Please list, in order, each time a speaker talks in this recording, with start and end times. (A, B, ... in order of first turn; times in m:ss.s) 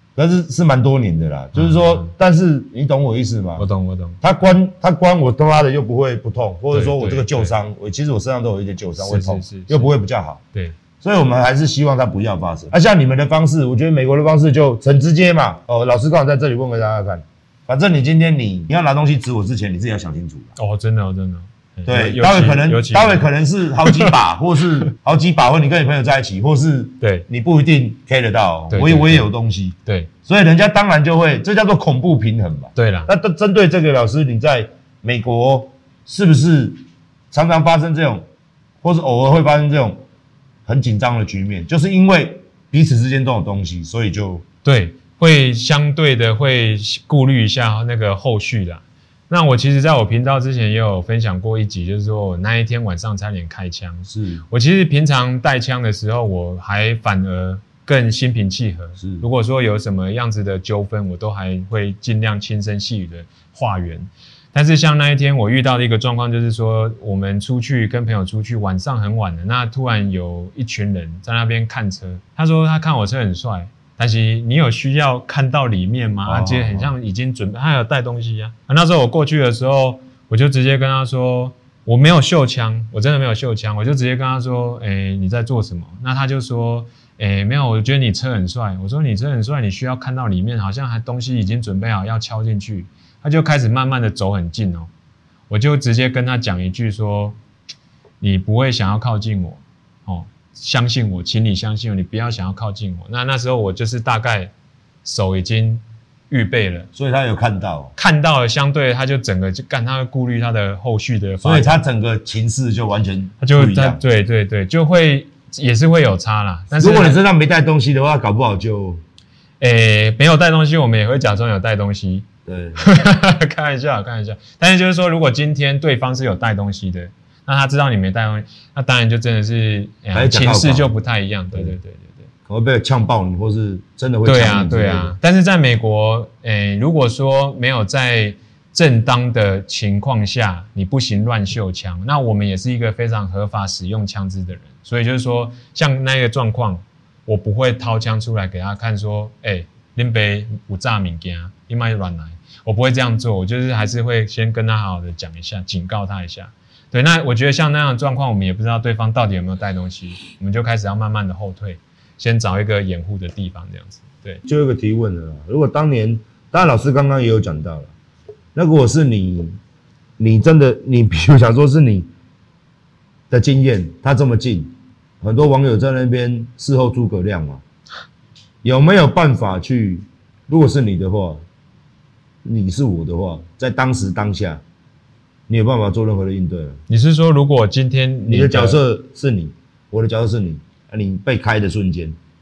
0:00.2-0:03.7 A
0:01.6-0:02.1 B
0:03.6-0:04.2 B
0:04.2-0:10.4 A
0:06.7-0:07.6 B
0:09.0-0:09.9 B
0:11.0-0:20.6 A
0:20.6-0:23.3 B
0:21.9-0:36.8 A
0:23.8-0:24.2 B
0:27.0-0:27.3 B
0:28.7-0:29.3 B
0:32.8-0:33.1 B
0:37.3-0:38.3 A
0:38.8-0:40.0 A
0:40.7-0:44.4 A
0:44.6-1:34.9 B
0:54.1-0:54.4 A
0:59.0-0:59.3 A
1:16.3-1:16.9 A
1:35.5-1:37.4 B
1:38.2-1:44.5 B
1:45.0-1:46.9 B
1:47.0-1:47.9 A
1:48.0-1:51.8 B
1:51.4-1:54.0 A
1:53.4-1:57.2 B
1:56.8-1:59.0 A
1:59.6-2:02.3 B
2:02.5-2:02.8 A
2:02.8-2:12.3 B
2:10.1-2:10.9 A
2:12.5-2:15.2 A
2:14.2-2:44.4 B
2:44.5-2:47.9 A
2:48.6-2:49.6 A
2:50.2-2:52.1 A
2:53.3-2:57.6 A
2:58.6-3:01.4 A
3:02.4-3:04.6 A
3:05.5-3:06.8 A
3:06.9-3:08.8 B
3:08.3-3:12.2 A